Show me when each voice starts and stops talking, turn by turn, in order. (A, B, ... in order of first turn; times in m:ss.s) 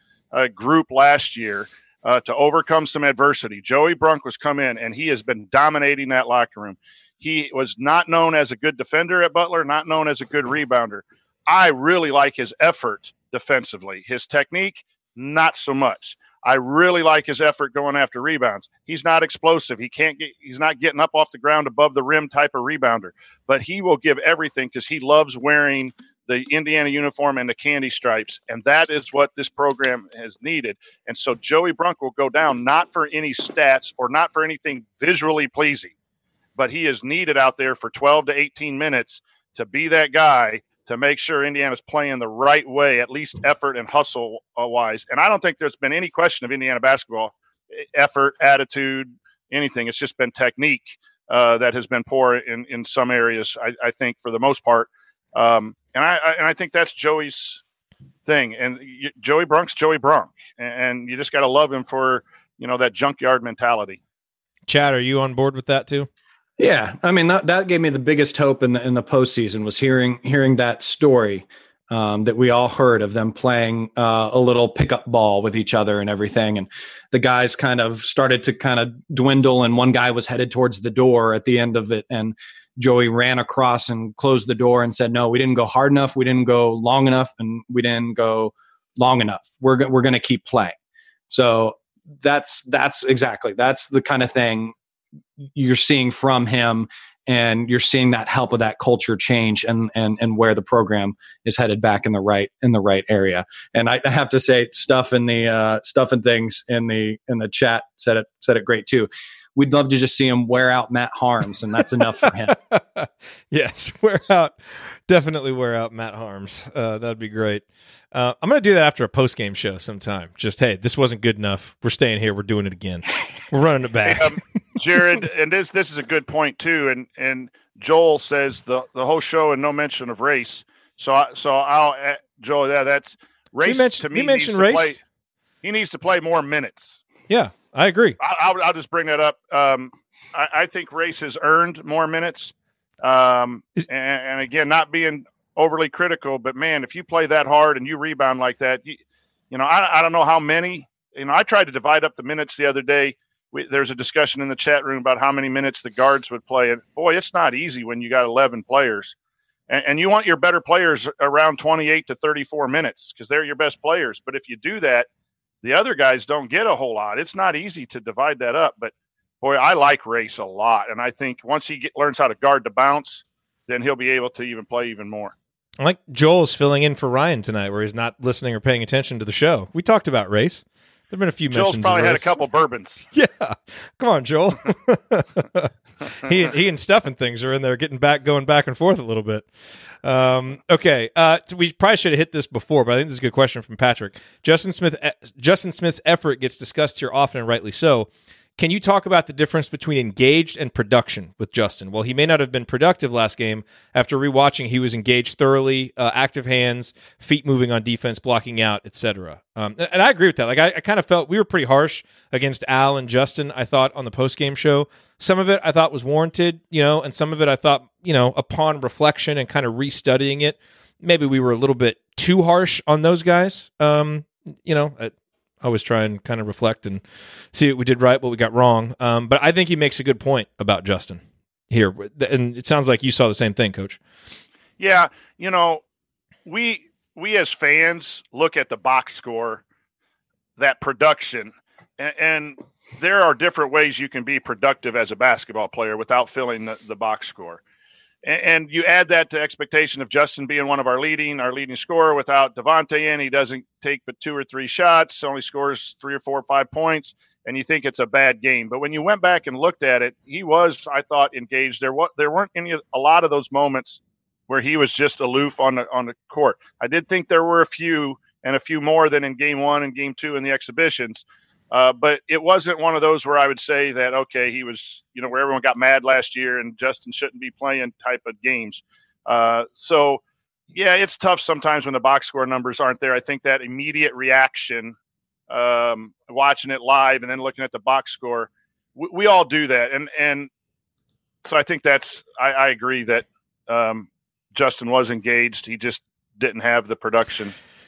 0:00.3-0:35.9 A
0:36.6-0:57.6 A
0:58.2-1:04.0 A
1:04.7-1:06.1 B
1:06.6-1:30.8 C
1:31.3-1:34.7 C
1:35.4-1:52.6 C
1:52.5-2:04.3 B
2:04.0-2:15.0 A
2:13.6-2:15.0 B
2:15.6-2:17.0 A
2:17.3-2:18.2 B
2:18.2-2:29.0 A
2:29.5-2:39.1 A
2:39.7-2:45.1 A
2:45.6-2:55.3 A
2:55.8-3:02.3 B
3:01.5-3:03.0 A
3:03.1-3:09.5 B
3:10.0-3:47.0 B
3:47.5-3:54.0 B
3:54.8-3:55.8 A
3:56.4-3:59.6 A
4:00.6-4:07.6 A
4:08.2-4:40.2 A
4:40.7-4:44.9 A
4:45.5-4:50.5 A
4:51.4-4:57.5 A